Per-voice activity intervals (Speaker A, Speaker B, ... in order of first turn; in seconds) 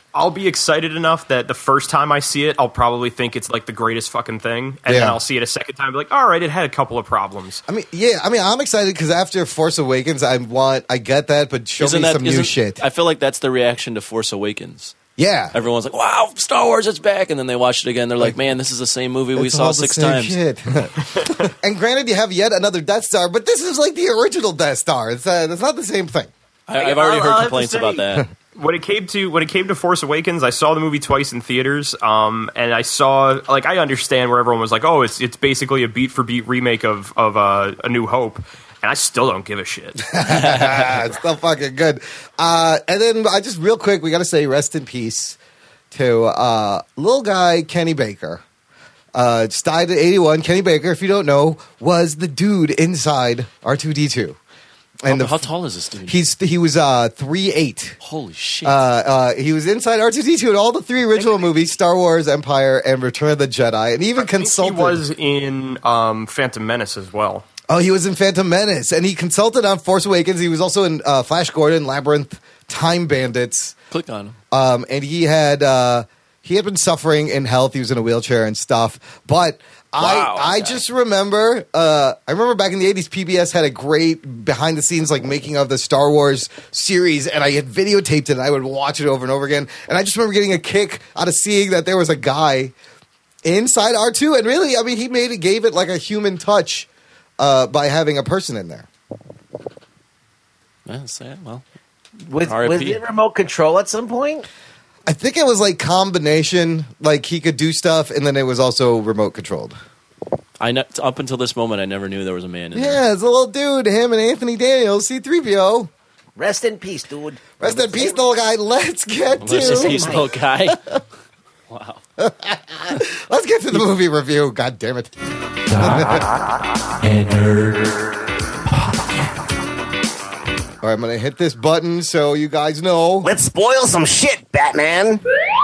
Speaker A: 0.1-7.6, 26.7-40.0, 64.2-67.5
Speaker B: 4.9-5.2, 7.7-12.8, 15.2-15.5, 19.4-26.3, 40.1-45.4, 45.9-48.4, 49.1-54.4, 55.0-55.5, 56.1-58.0, 58.6-65.0, 67.7-73.8, 74.5-92.7, 93.5-96.9, 97.4-98.9, 105.1-109.8, 112.7-115.9, 117.6-120.0, 122.2-125.1, 125.8-126.2, 130.8-133.3
Speaker C: 11.8-15.0, 15.5-20.4, 26.7-28.3, 40.5-40.9, 55.1-56.2, 58.0-58.9, 73.9-74.4, 80.0-80.8, 100.9-101.6, 102.5-103.0, 110.6-113.0, 119.4-121.0, 121.7-122.0, 125.7-126.3, 127.0-129.3
Speaker D: 102.3-104.5, 116.4-118.2, 119.5-120.3, 133.2-135.2